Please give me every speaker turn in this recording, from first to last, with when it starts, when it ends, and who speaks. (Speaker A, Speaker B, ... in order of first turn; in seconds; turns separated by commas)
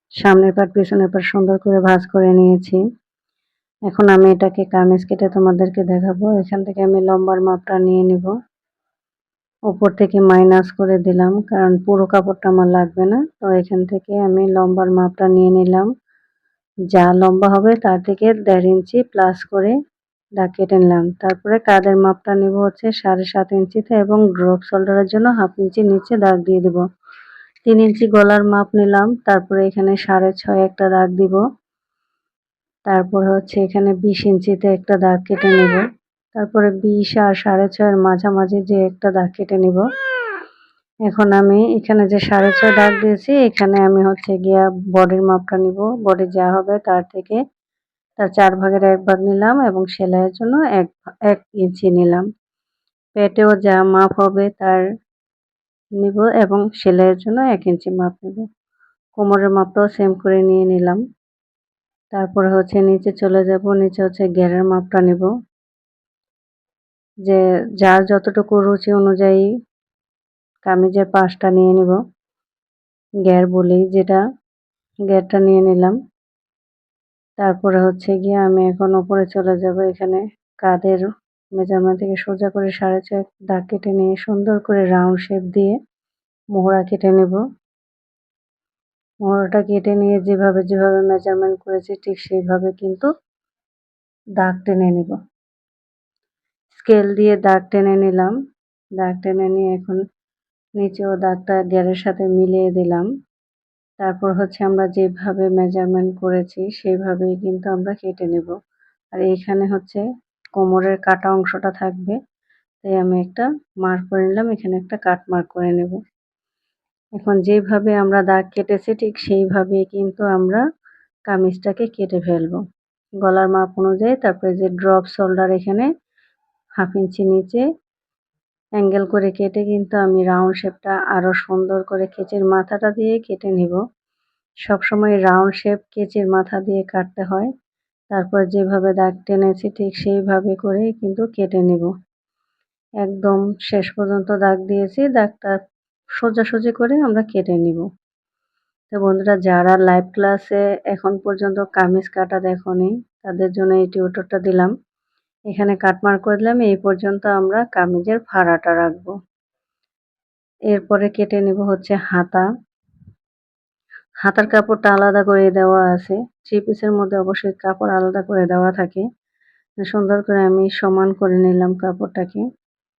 Speaker A: 0.2-2.8, Speaker A: 3.9-8.3, Speaker A: 9.7-15.9, Speaker A: 16.9-19.7, Speaker A: 20.4-26.8, Speaker A: 27.6-31.4, Speaker A: 32.9-35.8, Speaker A: 36.4-39.8, Speaker A: 41.1-47.4, Speaker A: 48.2-52.2, Speaker A: 53.2-54.8, Speaker A: 56.0-58.4, Speaker A: 59.2-61.0, Speaker A: 62.1-65.3, Speaker A: 67.2-69.5, Speaker A: 70.7-72.0, Speaker A: 73.2-74.2, Speaker A: 75.1-76.0, Speaker A: 77.4-81.0, Speaker A: 81.6-85.7, Speaker A: 86.5-87.4, Speaker A: 89.2-93.1, Speaker A: 94.4-95.2, Speaker A: 96.7-98.3, Speaker A: 99.0-100.0, Speaker A: 100.8-103.1, Speaker A: 104.0-108.5, Speaker A: 109.2-110.0, Speaker A: 110.6-112.2, Speaker A: 112.8-116.0, Speaker A: 117.2-120.6, Speaker A: 121.3-122.6, Speaker A: 123.2-125.9, Speaker A: 126.8-127.6, Speaker A: 128.8-133.8, Speaker A: 134.7-137.5, Speaker A: 138.1-141.9, Speaker A: 143.0-145.6, Speaker A: 146.2-147.8, Speaker A: 148.9-154.7, Speaker A: 155.5-159.1, Speaker A: 160.7-162.4, Speaker A: 164.2-169.0, Speaker A: 169.8-172.4